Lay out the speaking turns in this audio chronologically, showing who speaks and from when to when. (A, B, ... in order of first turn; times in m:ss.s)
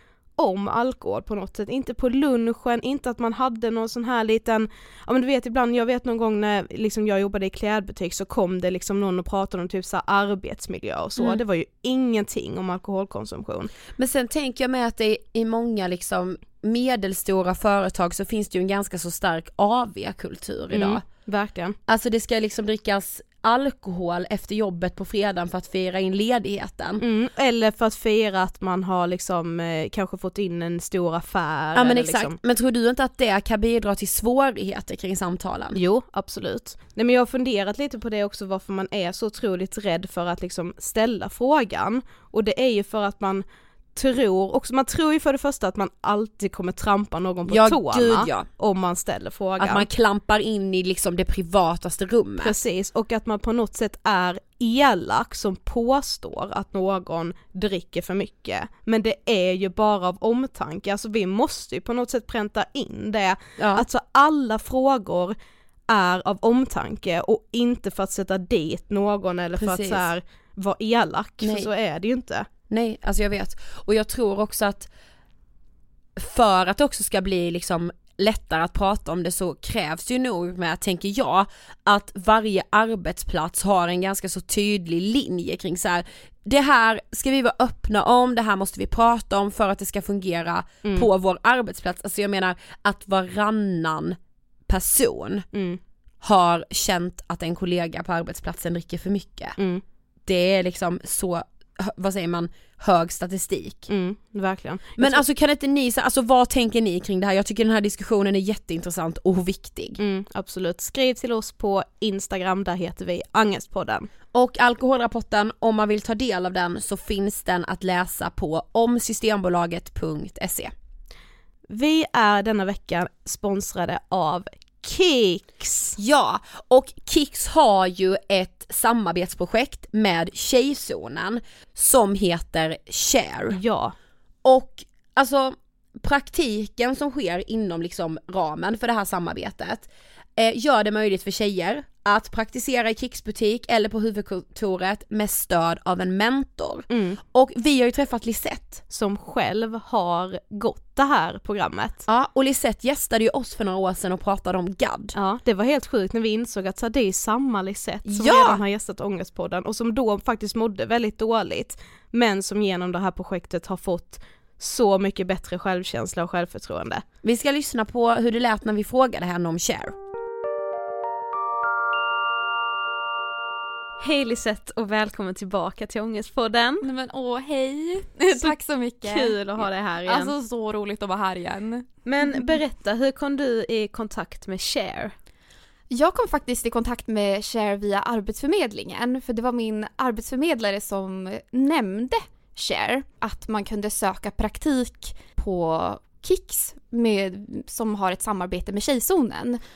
0:00.4-0:13.7 A
0:14.0-0:21.0 B
0:20.7-0:21.8 A
0:21.9-0:27.0 B
0:27.0-0:32.4 A
0:31.7-0:35.8 B
0:35.7-0:49.8 A
0:47.5-0:48.5 B
0:49.6-0:52.6 B
0:52.4-1:05.4 A
1:03.6-1:03.8 B
1:05.9-1:12.5 A
1:09.6-1:10.1 B
1:11.4-1:11.7 B
1:12.7-1:14.9 B
1:16.2-1:35.5 B
1:35.5-1:35.8 A
1:36.2-1:39.6 B
1:39.6-1:39.8 A
1:40.2-1:43.9 B
1:43.9-1:45.2 A
1:45.0-1:50.0 B
1:50.0-1:54.1 A
1:54.3-2:00.7 B
2:01.7-2:05.9 A
2:06.0-2:13.6 B
2:13.5-2:13.9 A
2:14.4-2:28.8 B
2:26.9-2:27.2 A
2:28.9-2:32.0 A
2:32.1-2:35.2 B
2:35.1-2:47.0 A
2:38.0-2:38.6 B
2:47.2-2:49.9 B
2:54.0-2:56.8 A
2:56.8-3:02.5 C
2:59.0-3:00.3 A
3:02.0-3:05.1 A
3:05.9-3:19.6 C